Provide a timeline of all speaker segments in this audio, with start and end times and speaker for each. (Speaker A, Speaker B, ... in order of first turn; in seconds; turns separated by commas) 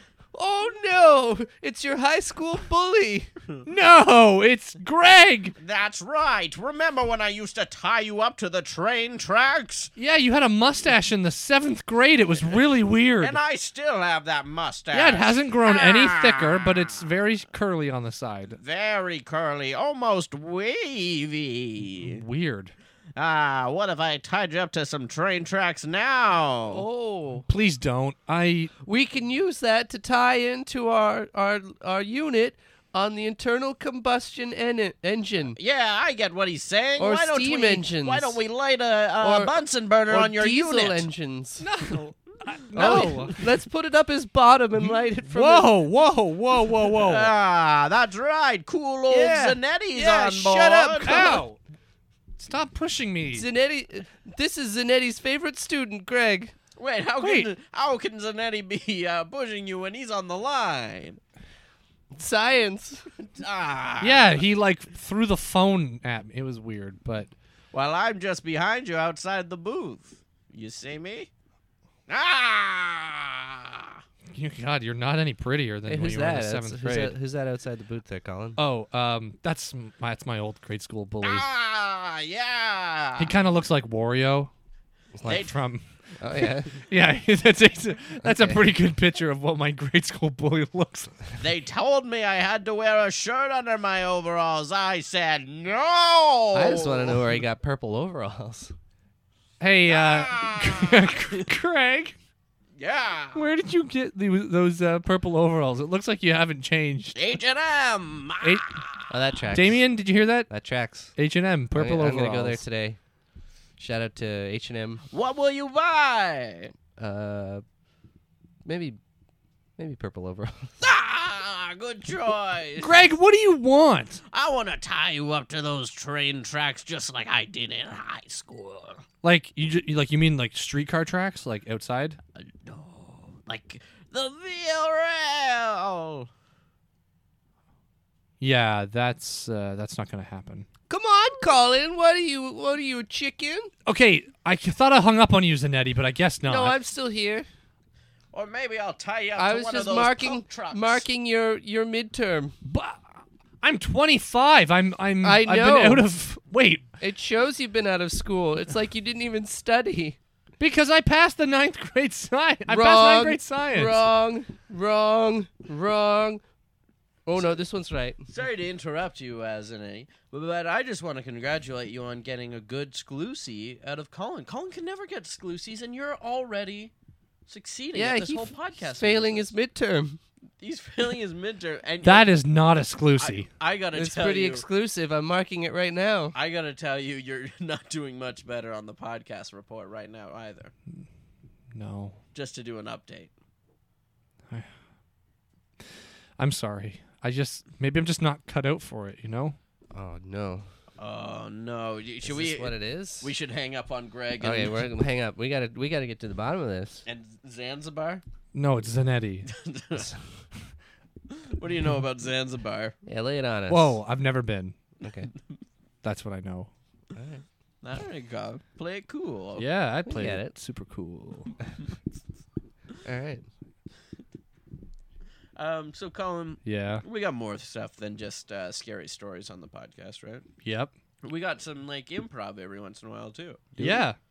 Speaker A: 0.3-3.3, Speaker B: 3.6-5.5, Speaker C: 5.6-9.9, Speaker B: 10.0-13.4, Speaker C: 13.2-16.7, Speaker B: 14.9-18.6, Speaker C: 18.6-22.2, Speaker B: 21.9-22.7, Speaker C: 23.1-26.9, Speaker A: 26.7-27.4, Speaker B: 27.5-28.7, Speaker A: 28.9-35.6, Speaker C: 35.6-41.1, Speaker A: 37.0-38.4, Speaker A: 39.2-39.6, Speaker A: 40.1-41.7, Speaker B: 41.6-43.4, Speaker A: 42.7-45.7, Speaker C: 42.8-43.3, Speaker B: 45.3-47.3, Speaker C: 46.9-51.4, Speaker A: 49.1-51.4, Speaker B: 51.0-51.6, Speaker B: 52.4-53.5, Speaker A: 53.3-56.5, Speaker C: 56.8-61.2, Speaker B: 57.2-57.5, Speaker A: 62.1-63.0, Speaker C: 63.3-64.4, Speaker B: 64.0-67.3, Speaker C: 67.7-71.3, Speaker C: 72.1-73.9, Speaker B: 74.3-77.1, Speaker A: 75.9-78.6, Speaker B: 78.6-81.5, Speaker C: 81.2-83.3, Speaker B: 83.2-84.5, Speaker B: 85.2-91.3, Speaker C: 85.3-85.5, Speaker A: 86.2-86.8, Speaker A: 88.2-88.6, Speaker C: 91.4-97.2, Speaker A: 96.5-98.7, Speaker B: 99.6-102.1, Speaker C: 99.9-101.4, Speaker C: 102.8-103.4, Speaker B: 103.3-107.2, Speaker C: 107.1-109.0, Speaker B: 108.4-108.7, Speaker A: 109.1-109.9, Speaker B: 109.5-110.5, Speaker A: 110.5-111.2, Speaker B: 111.1-112.6, Speaker A: 111.7-113.0, Speaker A: 113.8-115.0, Speaker C: 115.1-116.7, Speaker A: 117.0-117.6, Speaker A: 118.6-119.0, Speaker A: 119.8-120.7, Speaker C: 120.8-123.0, Speaker B: 122.8-124.2, Speaker C: 124.3-129.0, Speaker B: 129.2-132.2, Speaker C: 132.4-136.3, Speaker B: 138.4-140.7, Speaker A: 140.9-143.7, Speaker B: 143.9-146.8, Speaker A: 146.5-147.5, Speaker C: 148.3-151.0, Speaker A: 149.4-152.6, Speaker B: 152.6-153.1, Speaker B: 153.6-156.9, Speaker A: 155.2-156.1, Speaker A: 157.0-160.2, Speaker B: 160.6-164.0, Speaker A: 162.7-166.4, Speaker A: 167.3-168.2, Speaker C: 168.3-176.9, Speaker C: 177.5-179.5, Speaker A: 177.9-180.2, Speaker C: 180.6-182.3, Speaker B: 182.0-183.5, Speaker C: 183.2-184.6, Speaker A: 183.9-186.4, Speaker C: 186.3-190.7, Speaker B: 191.7-192.2, Speaker C: 192.3-193.3, Speaker B: 196.4-199.6, Speaker A: 199.9-200.7, Speaker C: 201.0-204.9, Speaker A: 202.2-203.3, Speaker A: 204.4-207.0, Speaker C: 207.1-208.2, Speaker B: 208.5-209.5, Speaker C: 209.5-210.1, Speaker C: 211.3-212.9, Speaker A: 213.1-214.0, Speaker B: 213.7-214.8, Speaker A: 215.0-215.3, Speaker B: 216.0-216.7, Speaker A: 217.1-217.4, Speaker C: 217.8-219.7, Speaker B: 219.6-221.6, Speaker A: 220.1-220.6, Speaker A: 223.1-223.5, Speaker C: 225.6-230.4, Speaker B: 226.6-227.0, Speaker B: 230.6-230.9, Speaker C: 231.2-234.0, Speaker B: 233.8-234.2